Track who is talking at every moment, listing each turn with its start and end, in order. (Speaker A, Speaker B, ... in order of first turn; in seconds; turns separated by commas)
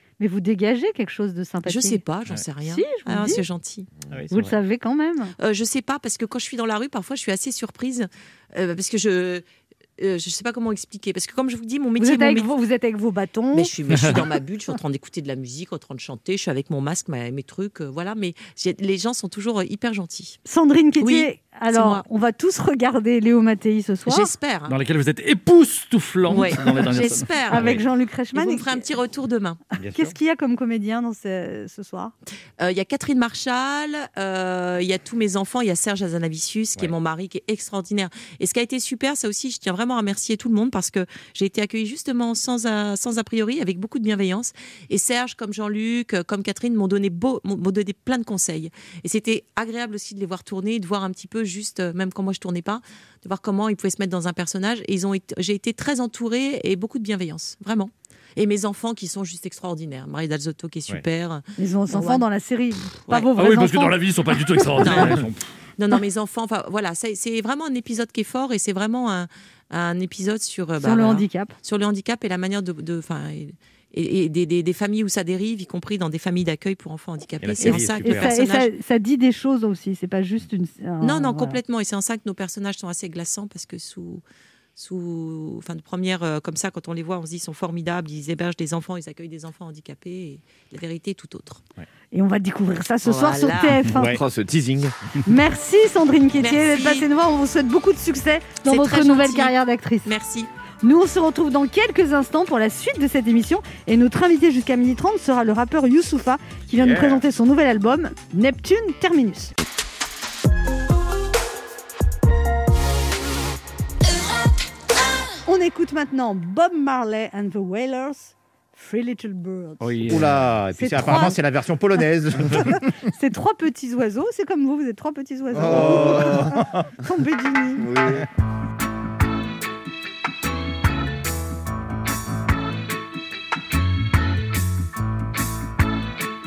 Speaker A: 0.2-2.0, Speaker B: 1.6-3.9, Speaker A: 2.6-3.4, Speaker C: 4.1-4.5, Speaker A: 4.3-5.3, Speaker B: 5.4-9.4, Speaker B: 10.0-12.5, Speaker A: 12.0-13.7, Speaker B: 13.5-20.4, Speaker A: 20.4-24.3, Speaker B: 21.0-22.0, Speaker B: 24.1-24.8, Speaker D: 24.7-27.3, Speaker B: 26.3-27.8, Speaker A: 27.0-28.9, Speaker B: 28.3-29.6, Speaker C: 29.8-30.1, Speaker A: 29.9-32.1, Speaker B: 32.6-62.2, Speaker A: 61.6-64.0, Speaker D: 63.4-65.3, Speaker B: 64.8-65.2, Speaker C: 64.8-65.4, Speaker B: 65.8-78.7, Speaker A: 70.8-71.5, Speaker C: 77.4-78.3, Speaker A: 77.6-81.6, Speaker B: 81.0-84.2, Speaker B: 84.8-91.6, Speaker A: 92.1-94.2, Speaker B: 93.0-93.9, Speaker C: 93.9-94.2, Speaker E: 94.0-94.9, Speaker A: 95.2-100.1, Speaker B: 96.4-97.1, Speaker B: 98.7-100.5, Speaker A: 100.8-109.5, Speaker E: 106.8-107.1, Speaker A: 115.5-119.9, Speaker D: 119.9-120.4, Speaker C: 120.0-122.9, Speaker A: 120.7-121.4, Speaker A: 122.6-127.9, Speaker C: 125.5-126.8, Speaker E: 125.6-126.6, Speaker E: 127.8-128.2